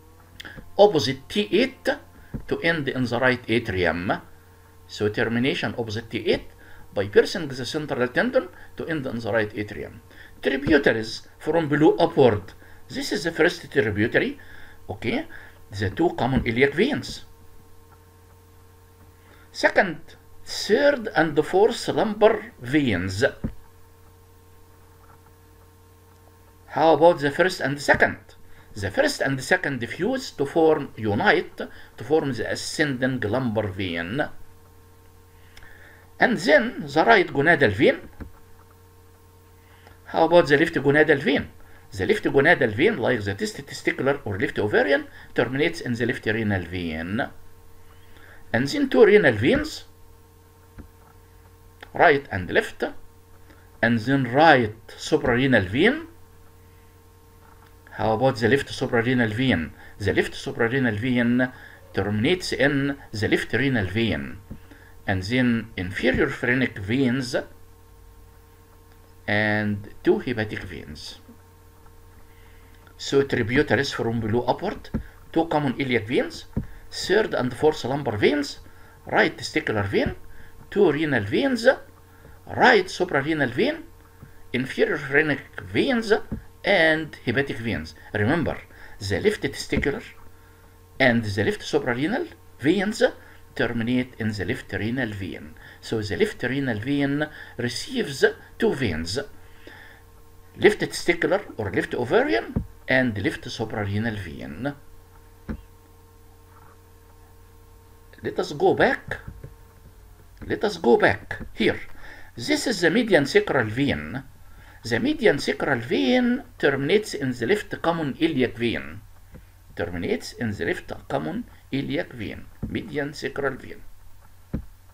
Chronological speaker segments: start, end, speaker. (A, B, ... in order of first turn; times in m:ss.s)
0:00.8-0:04.2 A
0:04.9-0:17.3 A
0:19.5-0:23.3 A
0:26.7-0:34.3 A
0:36.2-0:38.1 A
0:40.1-0:47.3 A
0:48.5-0:49.9 A
0:51.9-0:52.9 A
0:53.8-0:56.1 A
0:57.9-1:04.4 A
1:05.1-1:07.5 A
1:09.3-1:11.2 A
1:13.0-1:20.2 A
1:20.7-1:21.8 A
1:22.5-1:23.8 A
1:24.5-1:30.2 A
1:31.0-1:39.2 A
1:40.6-1:44.8 A
1:48.2-1:49.2 A
1:50.4-1:54.2 A
1:54.8-1:59.0 A
1:59.7-2:03.8 A